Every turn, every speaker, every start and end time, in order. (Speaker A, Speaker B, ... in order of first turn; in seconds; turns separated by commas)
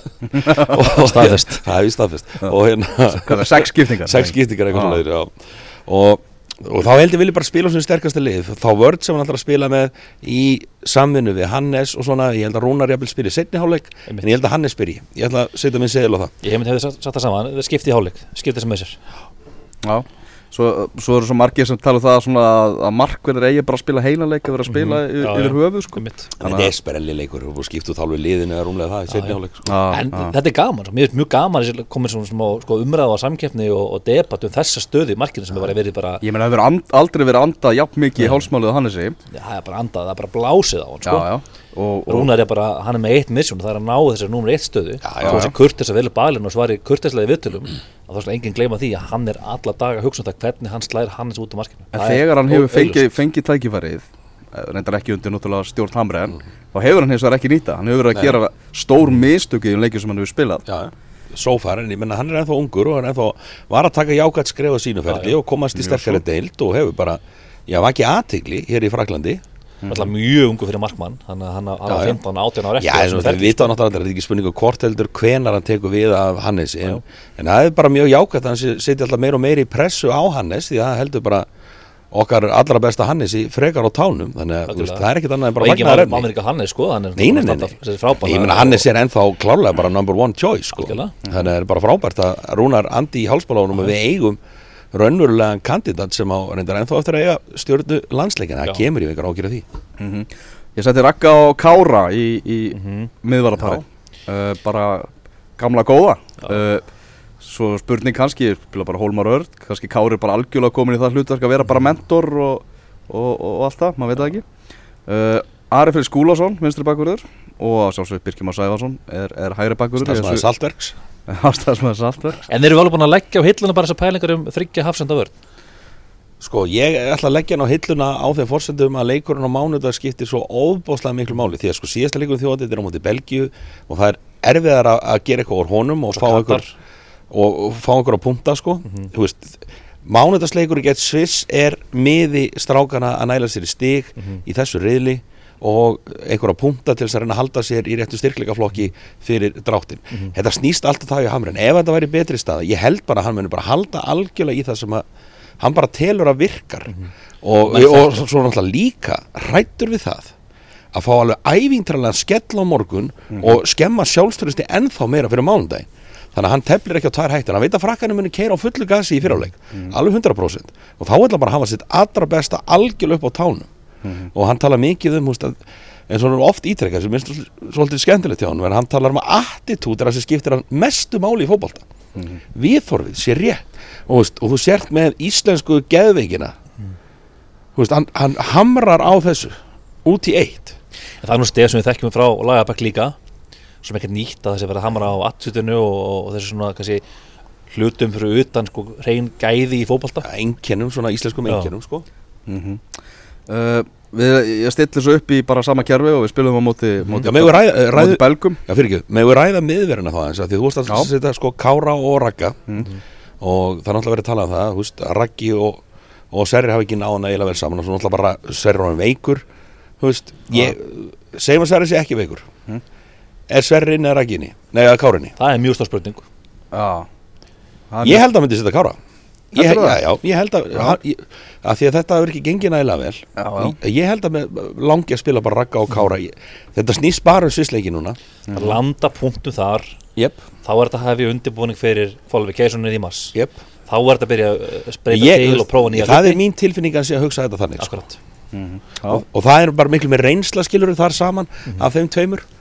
Speaker A: 0.3-16.3, Speaker B: 0.8-1.6, Speaker C: 3.1-5.0, Speaker B: 16.4-19.0, Speaker C: 19.8-26.7, Speaker B: 24.7-26.3, Speaker A: 26.4-29.7, Speaker C: 29.6-30.3, Speaker B: 29.9-36.2, Speaker C: 36.2-39.1, Speaker B: 38.2-38.4, Speaker B: 39.3-41.3, Speaker C: 41.0-42.3, Speaker B: 42.1-53.1, Speaker A: 45.0-45.5, Speaker C: 45.2-45.5, Speaker C: 51.9-60.6, Speaker A: 60.6-69.4, Speaker B: 65.1-65.3, Speaker C: 65.8-66.2, Speaker C: 69.8-70.1, Speaker B: 69.9-73.7, Speaker A: 71.8-72.2, Speaker A: 72.8-81.5, Speaker A: 82.1-86.3, Speaker B: 84.7-88.8, Speaker A: 87.2-94.4, Speaker B: 90.8-91.1, Speaker A: 94.9-99.6, Speaker C: 100.0-106.8, Speaker B: 102.8-103.1, Speaker C: 107.4-114.4, Speaker C: 115.1-120.4, Speaker A: 120.0-121.0, Speaker C: 121.3-122.4, Speaker B: 122.5-125.3, Speaker A: 126.4-136.6, Speaker B: 136.1-136.7, Speaker A: 137.3-155.0, Speaker A: 155.6-160.3, Speaker B: 157.7-158.2, Speaker A: 160.9-173.7, Speaker C: 174.0-174.3, Speaker A: 174.3-181.8, Speaker A: 182.5-186.5, Speaker A: 187.7-190.8, Speaker B: 191.2-193.1, Speaker B: 193.8-197.0, Speaker B: 197.7-200.2, Speaker A: 200.2-202.1, Speaker C: 202.5-202.8, Speaker C: 203.5-208.6, Speaker A: 207.2-212.8, Speaker A: 213.4-219.4, Speaker A: 220.0-222.5, Speaker A: 223.5-225.3, Speaker B: 225.4-226.2, Speaker C: 226.7-227.1, Speaker C: 227.9-228.2, Speaker A: 228.0-229.0, Speaker A: 229.5-238.2, Speaker C: 229.5-230.0, Speaker C: 233.4-233.8, Speaker C: 238.5-238.8, Speaker B: 238.5-239.9, Speaker A: 240.2-240.4, Speaker B: 240.6-243.3, Speaker B: 243.9-246.4, Speaker A: 245.1-248.0, Speaker B: 247.8-248.2, Speaker C: 248.5-249.2, Speaker A: 249.1-252.4